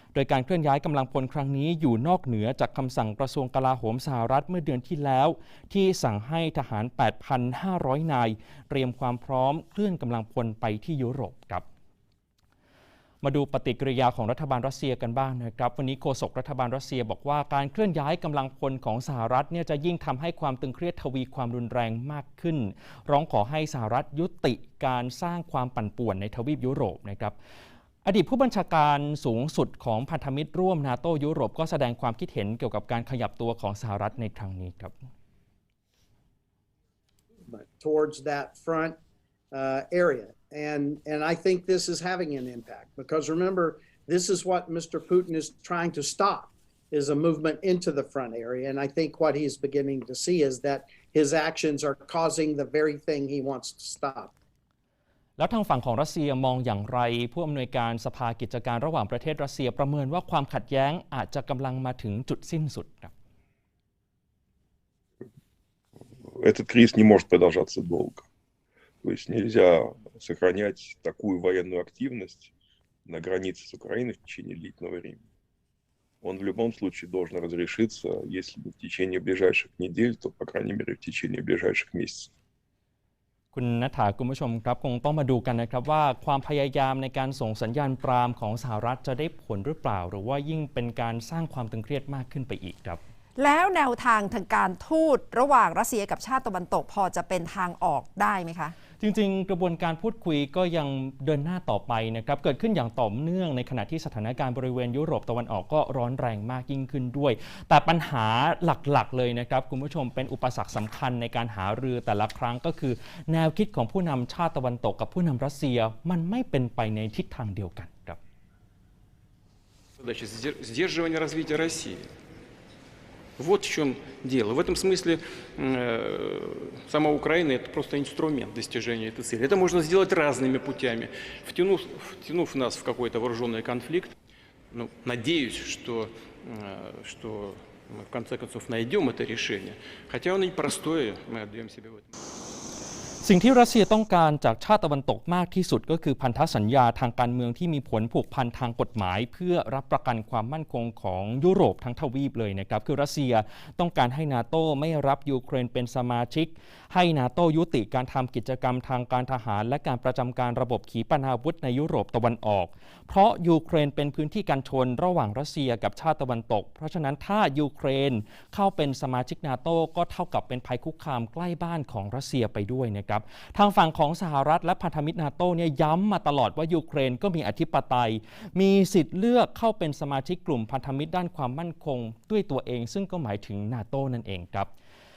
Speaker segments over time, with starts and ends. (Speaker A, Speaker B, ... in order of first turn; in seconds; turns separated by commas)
Speaker A: 0.1-11.6, Speaker A: 13.2-27.3, Speaker A: 28.1-34.9, Speaker B: 37.5-39.0, Speaker B: 39.5-54.3, Speaker A: 55.4-63.1, Speaker C: 66.2-68.3, Speaker C: 69.0-72.5, Speaker C: 73.1-75.2, Speaker C: 76.2-82.3, Speaker A: 83.5-93.0, Speaker D: 93.4-98.8, Speaker A: 99.0-118.2, Speaker E: 120.0-122.1, Speaker E: 123.4-134.1, Speaker E: 134.7-142.1, Speaker A: 143.2-184.7